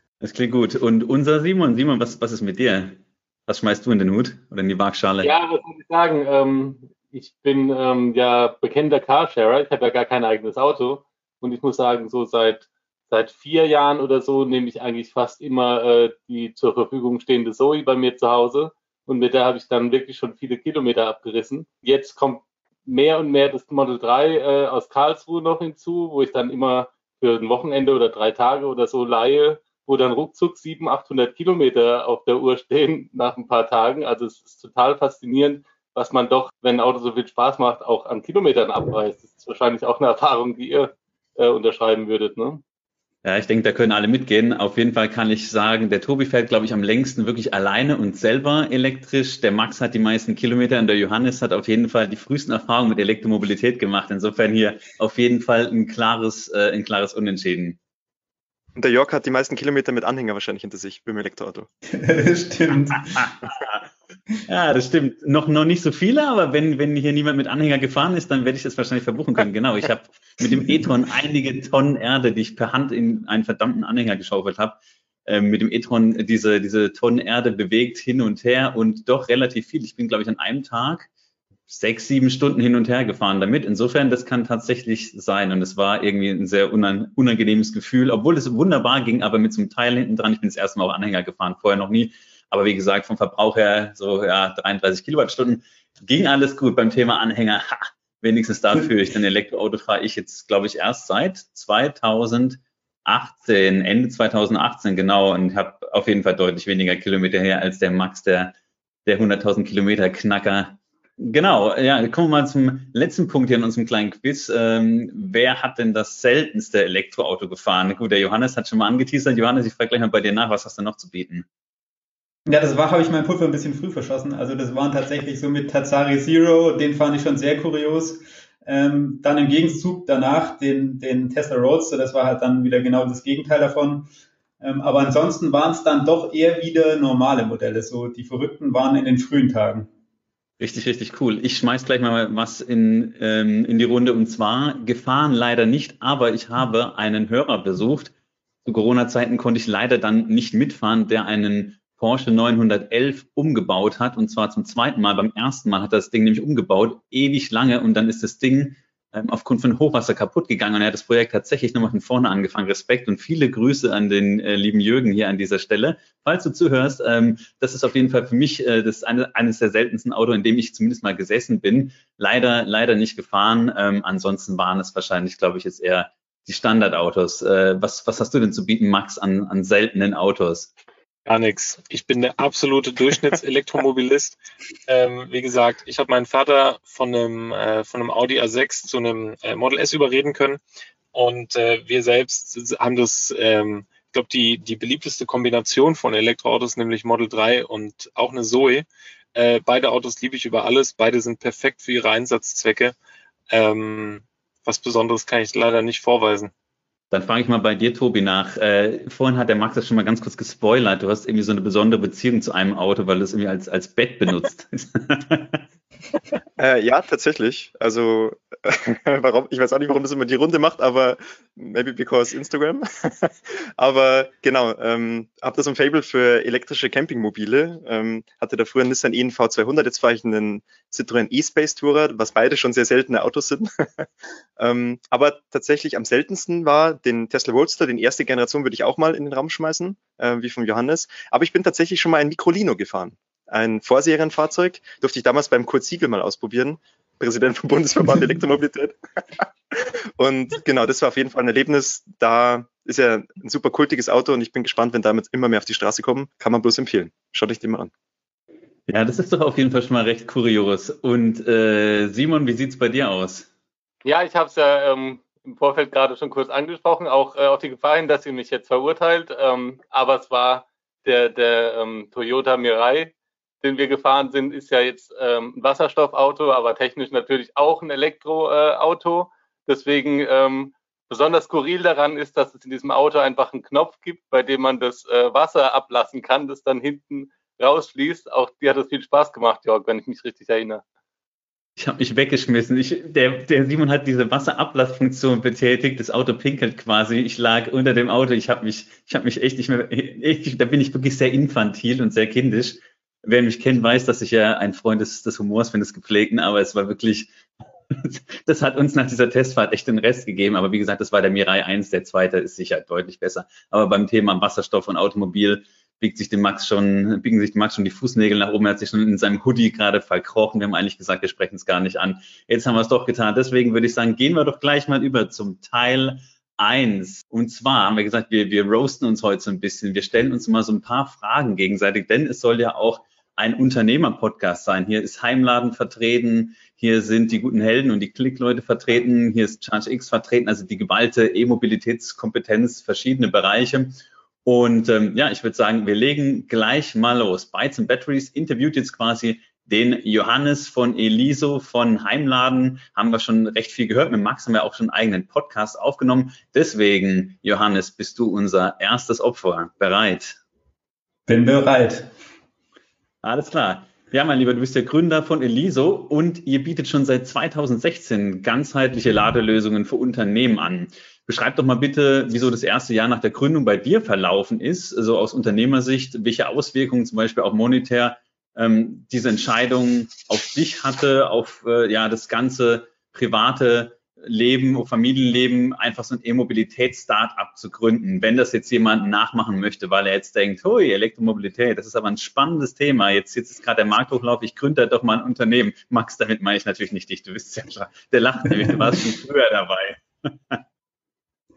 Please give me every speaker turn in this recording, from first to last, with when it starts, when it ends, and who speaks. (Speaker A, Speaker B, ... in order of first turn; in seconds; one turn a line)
Speaker A: 0.2-5.3
Speaker B: 5.2-42.6
Speaker A: 43.2-57.8
Speaker C: 58.8-61.7
Speaker D: 61.9-63.3
Speaker A: 63.2-63.9
Speaker A: 64.5-81.1
Speaker A: 81.7-108.5
Speaker A: 109.1-121.5
Speaker D: 122.5-134.1
Speaker D: 134.6-139.9
Speaker A: 140.6-148.1
Speaker A: 148.7-180.7
Speaker E: 181.3-190.6
Speaker E: 191.1-203.0
Speaker E: 203.5-206.5
Speaker A: 207.1-215.6
Speaker C: 216.6-234.1
Speaker C: 234.6-257.9
Speaker A: 258.9-263.5
Speaker B: 264.0-290.8
Speaker A: 291.8-307.3
Speaker A: 307.9-360.4
Speaker D: 361.3-362.1
Speaker A: 363.2-400.6